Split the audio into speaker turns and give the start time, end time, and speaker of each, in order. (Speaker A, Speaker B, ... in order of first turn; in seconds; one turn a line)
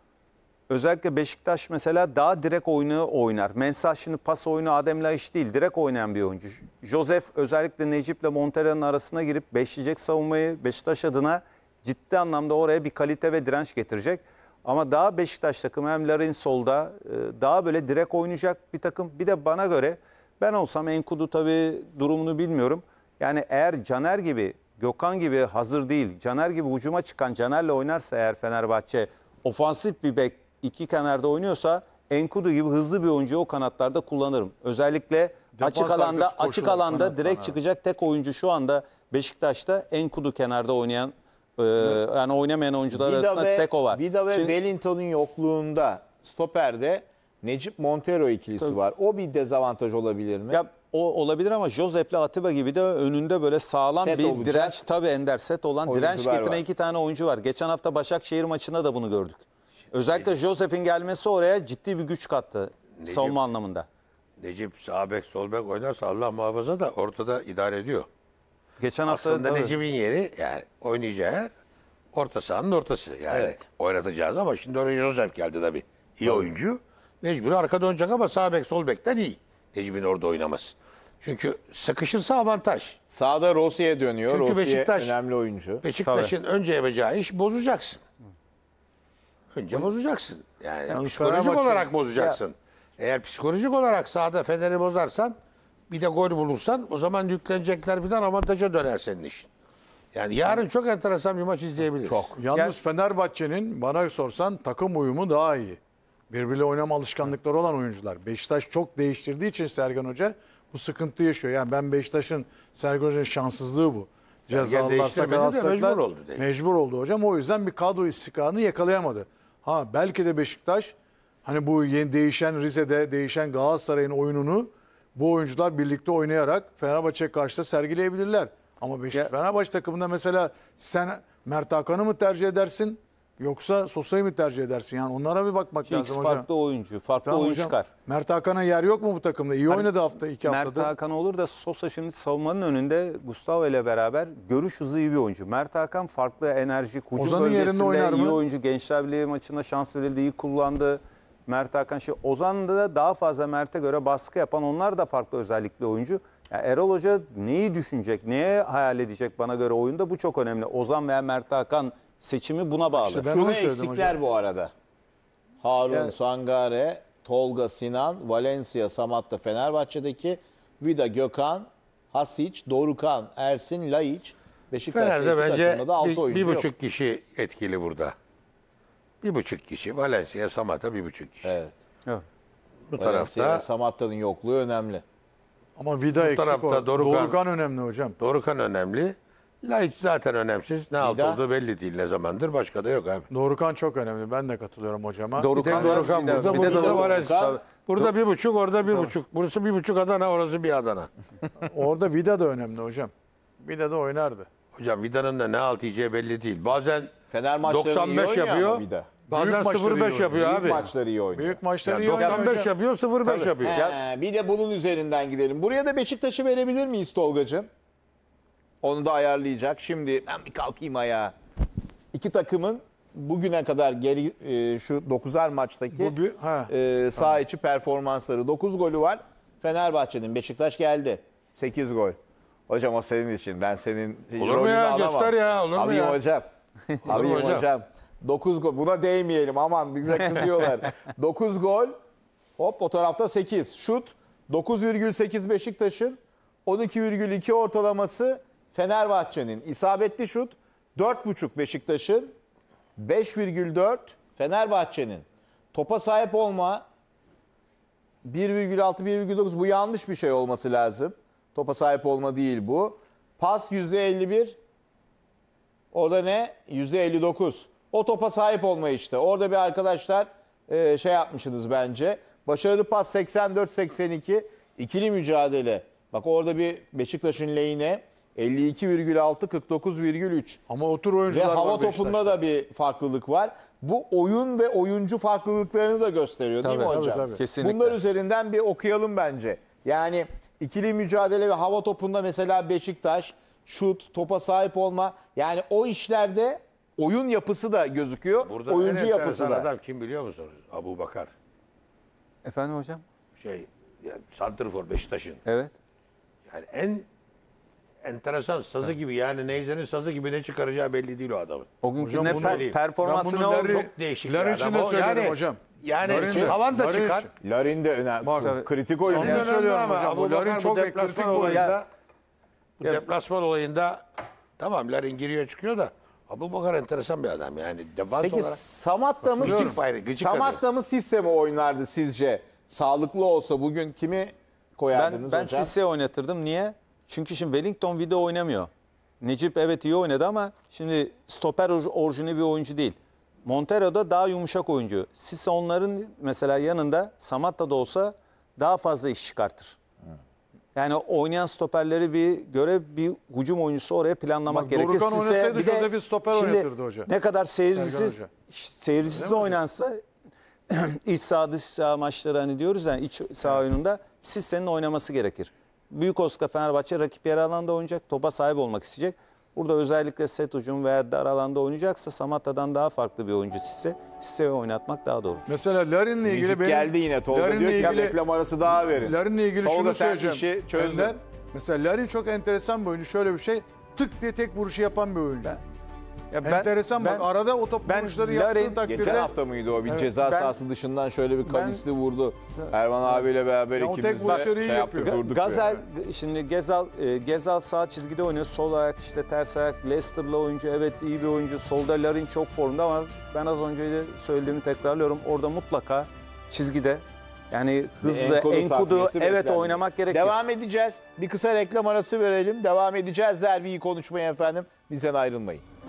Speaker A: 0.7-44.5
Speaker B: 35.6-37.5
Speaker C: 42.9-50.6
Speaker A: 50.5-63.9
Speaker C: 54.0-54.8
Speaker C: 55.9-56.6
Speaker D: 63.0-63.4
Speaker D: 64.4-68.1
Speaker A: 68.8-69.8
Speaker D: 69.1-71.5
Speaker D: 72.1-83.0
Speaker C: 73.3-73.6
Speaker C: 83.1-85.8
Speaker D: 84.3-85.2
Speaker D: 85.8-88.0
Speaker A: 86.0-86.3
Speaker D: 89.5-95.4
Speaker B: 90.9-91.9
Speaker D: 95.9-99.5
Speaker D: 100.1-102.3
Speaker C: 102.0-102.4
Speaker B: 102.4-105.8
Speaker B: 106.3-120.9
Speaker D: 114.5-116.5
Speaker B: 121.5-136.5
Speaker A: 135.9-137.9
Speaker B: 137.3-140.9
Speaker A: 139.7-163.3
Speaker B: 147.2-148.4
Speaker B: 162.9-164.1
Speaker C: 163.3-164.7
Speaker C: 165.6-176.7
Speaker D: 174.9-178.2
Speaker D: 179.2-181.5
Speaker C: 181.4-181.8
Speaker D: 182.9-183.7
Speaker C: 182.9-185.0
Speaker B: 185.8-188.2
Speaker D: 186.2-187.4
Speaker D: 188.2-193.3
Speaker C: 191.0-191.4
Speaker B: 193.3-197.0
Speaker A: 195.4-198.1
Speaker D: 195.6-201.1
Speaker C: 196.5-197.6
Speaker B: 201.7-204.5
Speaker D: 204.8-210.8
Speaker C: 207.3-209.1
Speaker B: 209.3-210.8
Speaker C: 210.3-211.6
Speaker B: 211.3-212.7
Speaker D: 211.8-213.9
Speaker A: 212.1-212.6
Speaker A: 213.2-214.0
Speaker C: 213.6-217.7
Speaker C: 218.8-221.3
Speaker C: 222.1-226.2
Speaker B: 225.9-227.3
Speaker C: 226.7-242.0
Speaker D: 234.4-236.2
Speaker D: 237.0-237.7
Speaker C: 242.6-252.3
Speaker C: 253.0-256.9
Speaker C: 258.2-264.6
Speaker C: 265.9-280.6
Speaker B: 280.7-282.4
Speaker C: 281.3-299.7
Speaker A: 286.6-288.0
Speaker B: 286.9-287.4
Speaker D: 298.4-301.3
Speaker A: 302.4-303.0
Speaker D: 303.4-305.4
Speaker A: 305.4-305.7
Speaker D: 306.5-307.1
Speaker D: 308.0-311.7
Speaker A: 311.8-313.9
Speaker B: 312.0-317.3
Speaker D: 312.2-312.8
Speaker D: 313.7-317.3
Speaker C: 316.1-316.6
Speaker C: 317.4-319.5
Speaker B: 318.2-318.6
Speaker A: 318.4-318.7
Speaker B: 319.1-321.7
Speaker D: 319.1-321.9
Speaker A: 321.4-321.8
Speaker D: 322.8-324.0
Speaker D: 324.6-328.6
Speaker C: 328.2-335.7
Speaker B: 329.4-329.8
Speaker D: 329.4-330.6
Speaker A: 334.9-338.7
Speaker A: 339.2-349.8
Speaker A: 350.8-360.0
Speaker B: 354.5-357.1
Speaker B: 357.7-358.3
Speaker B: 359.2-359.5
Speaker A: 360.7-375.5
Speaker B: 375.5-378.2
Speaker C: 376.2-381.2
Speaker B: 378.8-385.6
Speaker A: 386.3-387.3
Speaker B: 386.4-389.3
Speaker A: 387.8-389.3
Speaker C: 388.8-395.7
Speaker A: 390.2-390.6
Speaker A: 391.5-391.8
Speaker B: 393.8-395.6
Speaker A: 395.0-410.4
Speaker C: 408.0-415.6